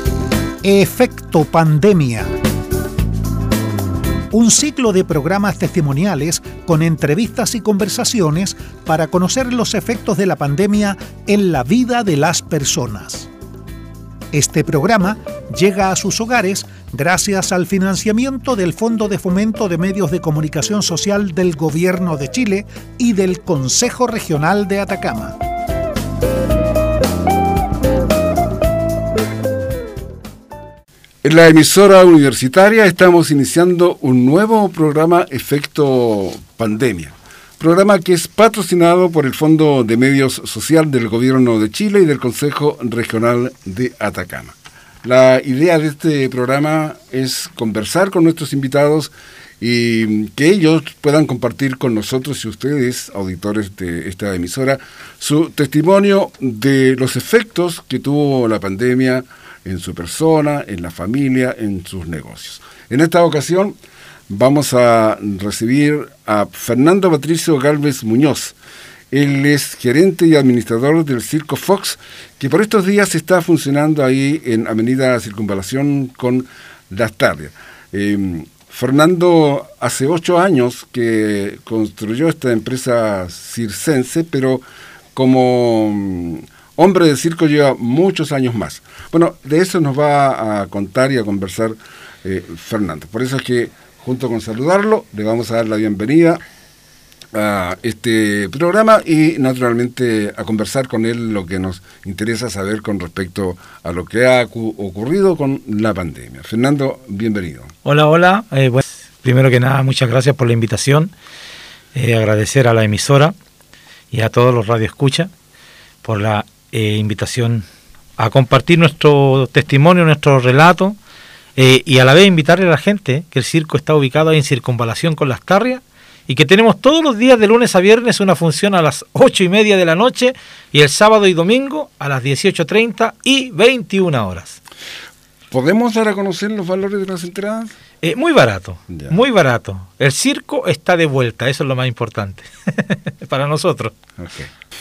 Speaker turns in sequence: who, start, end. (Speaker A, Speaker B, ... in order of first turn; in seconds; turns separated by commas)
Speaker A: 0.6-2.3, Speaker A: 4.3-13.3, Speaker A: 14.3-25.4, Speaker B: 31.2-63.8, Speaker B: 64.3-68.6, Speaker B: 69.1-96.4, Speaker B: 97.3-107.7, Speaker C: 107.8-111.1, Speaker C: 111.9-113.3, Speaker C: 114.1-115.3, Speaker C: 116.0-117.7, Speaker C: 118.2-121.0, Speaker C: 121.6-134.6, Speaker B: 135.5-137.7, Speaker C: 138.0-143.9, Speaker B: 144.2-144.5